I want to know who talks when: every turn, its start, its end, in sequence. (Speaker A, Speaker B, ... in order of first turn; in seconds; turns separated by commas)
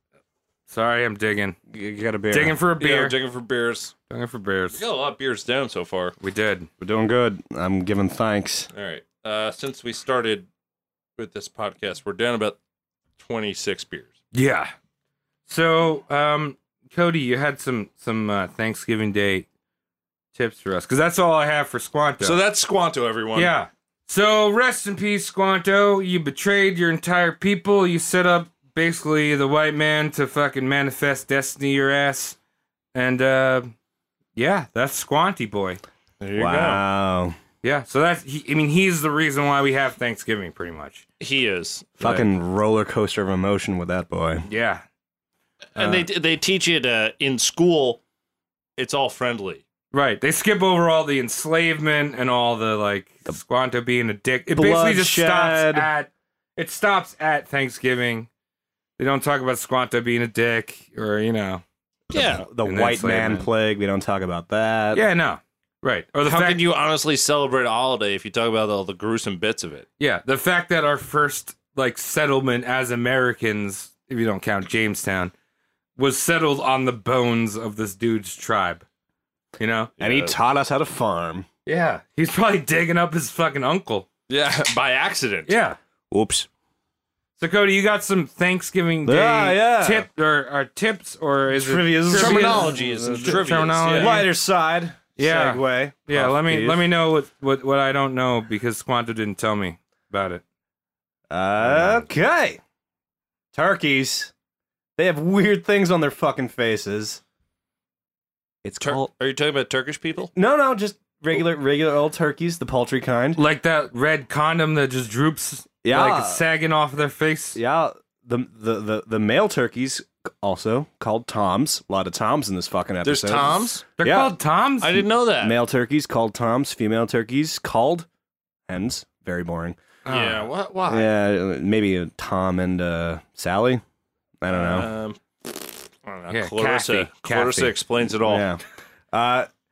Speaker A: 0.7-1.6, Speaker B: 1.7-2.6, Speaker A: 2.3-3.1, Speaker C: 2.8-3.9, Speaker A: 4.1-4.8, Speaker C: 4.7-6.1, Speaker A: 6.2-6.7, Speaker B: 6.8-8.7, Speaker C: 8.7-10.5, Speaker C: 11.2-12.6, Speaker C: 13.2-14.1, Speaker A: 14.3-14.7, Speaker A: 15.5-19.5, Speaker A: 20.3-22.4, Speaker C: 22.2-23.5, Speaker A: 23.3-32.4, Speaker A: 32.9-33.7, Speaker A: 34.4-35.8, Speaker C: 36.2-36.8, Speaker B: 36.4-37.3, Speaker A: 37.6-41.0, Speaker C: 41.2-41.9, Speaker A: 42.0-42.3, Speaker B: 42.0-44.5, Speaker A: 44.5-44.8, Speaker C: 45.7-48.0, Speaker A: 45.8-46.0, Speaker C: 48.8-49.6, Speaker A: 49.9-58.3, Speaker B: 54.5-55.9, Speaker A: 59.0-61.6, Speaker B: 62.1-65.0, Speaker C: 62.1-62.5, Speaker A: 62.6-63.5, Speaker A: 64.9-66.6, Speaker C: 66.2-69.8, Speaker A: 70.0-75.3, Speaker A: 76.0-78.8, Speaker A: 79.6-79.9, Speaker C: 80.0-80.3, Speaker B: 80.0-81.5, Speaker A: 81.7-84.1, Speaker C: 84.3-85.5, Speaker A: 85.5-85.8, Speaker B: 86.1-86.5, Speaker A: 87.4-94.2, Speaker B: 89.0-90.1, Speaker B: 91.5-96.8, Speaker C: 92.1-94.2, Speaker A: 95.2-100.4, Speaker B: 101.3-102.6, Speaker B: 103.5-104.3, Speaker B: 105.0-107.2, Speaker B: 108.6-109.1, Speaker C: 108.8-110.3, Speaker B: 110.3-113.4, Speaker A: 113.3-117.6, Speaker B: 115.8-116.4, Speaker B: 117.5-124.3, Speaker C: 123.0-123.8, Speaker A: 124.0-125.0, Speaker C: 124.8-125.6, Speaker B: 125.4-128.1, Speaker B: 128.7-129.8, Speaker A: 130.1-130.5, Speaker C: 130.1-131.1, Speaker B: 130.9-133.8, Speaker B: 134.4-134.9, Speaker C: 134.5-138.5, Speaker A: 136.3-137.8, Speaker B: 138.2-139.5